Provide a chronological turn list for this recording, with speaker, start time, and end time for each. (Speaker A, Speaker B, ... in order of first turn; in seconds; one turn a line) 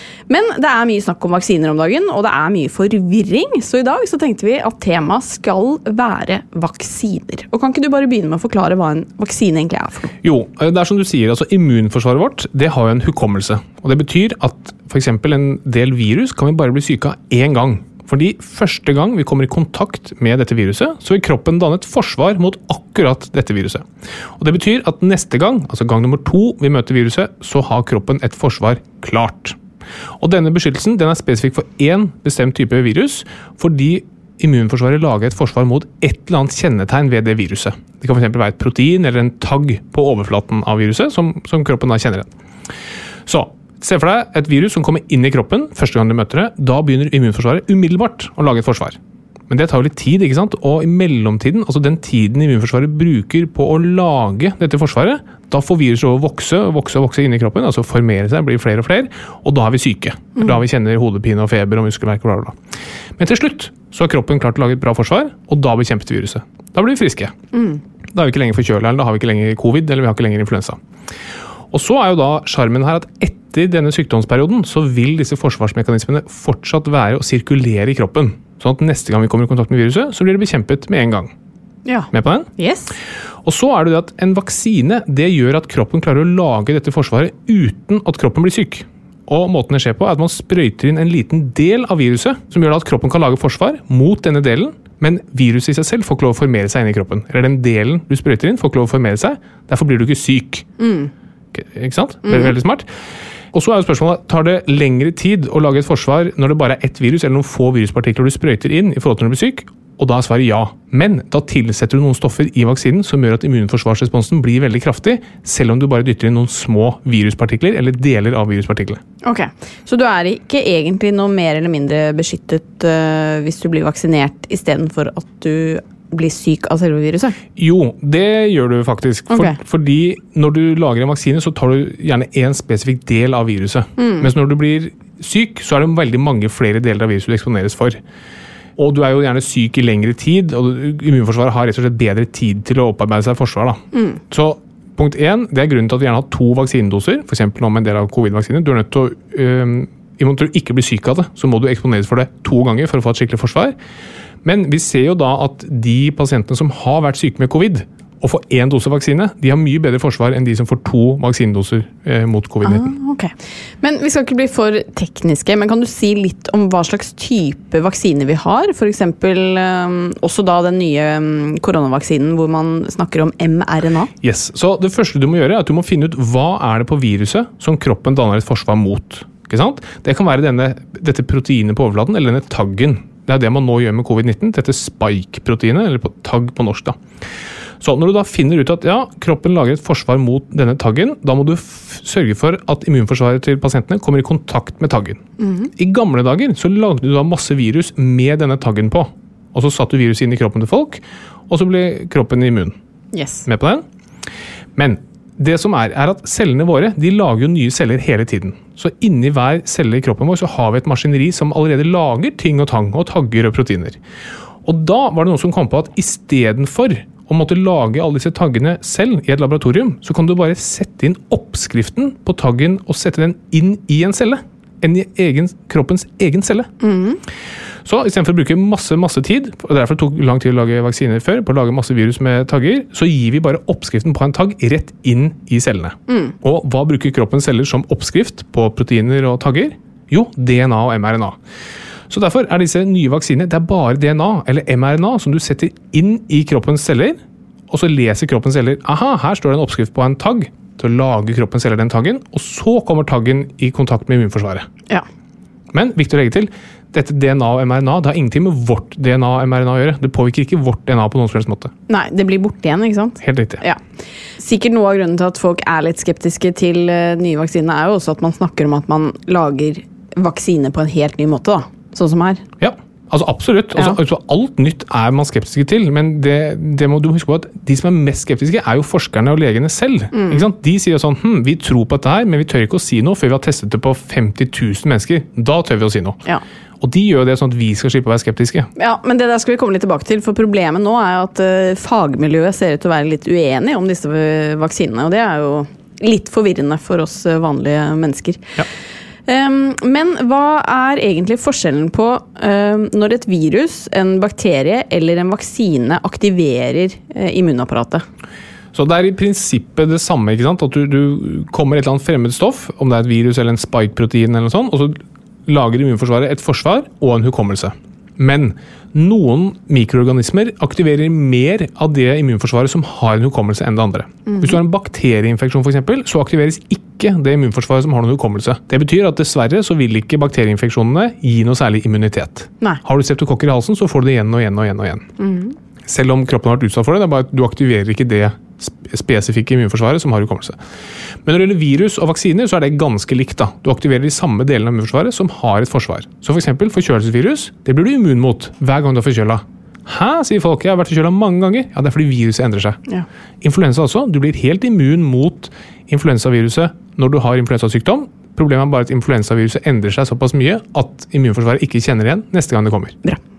Speaker A: 0.3-10.1
Speaker B: 10.2-23.9
Speaker B: 24.4-29.6
Speaker B: 30.2-42.3
Speaker B: 43.2-49.0
Speaker B: 49.5-62.6
Speaker B: 63.2-67.3
Speaker A: 67.5-67.8
Speaker B: 68.1-70.8
Speaker B: 71.7-81.3
Speaker A: 81.8-82.9
Speaker B: 82.1-82.5
Speaker B: 83.4-100.7
Speaker A: 100.8-101.1
Speaker B: 101.5-102.9
Speaker A: 102.2-102.5
Speaker B: 103.5-119.0
Speaker A: 119.2-127.3
Speaker B: 127.5-138.0
Speaker A: 129.3-129.6
Speaker A: 134.0-134.3
Speaker B: 138.8-153.8
Speaker A: 143.9-144.2
Speaker B: 154.4-162.9
Speaker A: 162.6-174.1
Speaker B: 174.2-187.0
Speaker B: 187.8-195.2
Speaker A: 195.4-195.7
Speaker B: 195.8-202.7
Speaker A: 203.1-203.5
Speaker B: 203.4-203.8
Speaker B: 204.8-214.0
Speaker B: 214.6-226.7
Speaker A: 226.8-227.2
Speaker B: 227.8-241.4
Speaker A: 236.1-236.3
Speaker B: 242.1-254.7
Speaker B: 255.7-261.7
Speaker A: 261.9-263.8
Speaker B: 263.2-263.6
Speaker A: 264.4-272.4
Speaker B: 272.6-286.2
Speaker A: 280.1-280.4
Speaker B: 286.8-288.7
Speaker A: 288.8-298.5
Speaker A: 299.3-308.0
Speaker B: 308.7-335.1
Speaker A: 324.3-324.6
Speaker A: 335.2-335.5
Speaker B: 335.8-340.6
Speaker B: 341.2-352.8
Speaker B: 353.4-363.0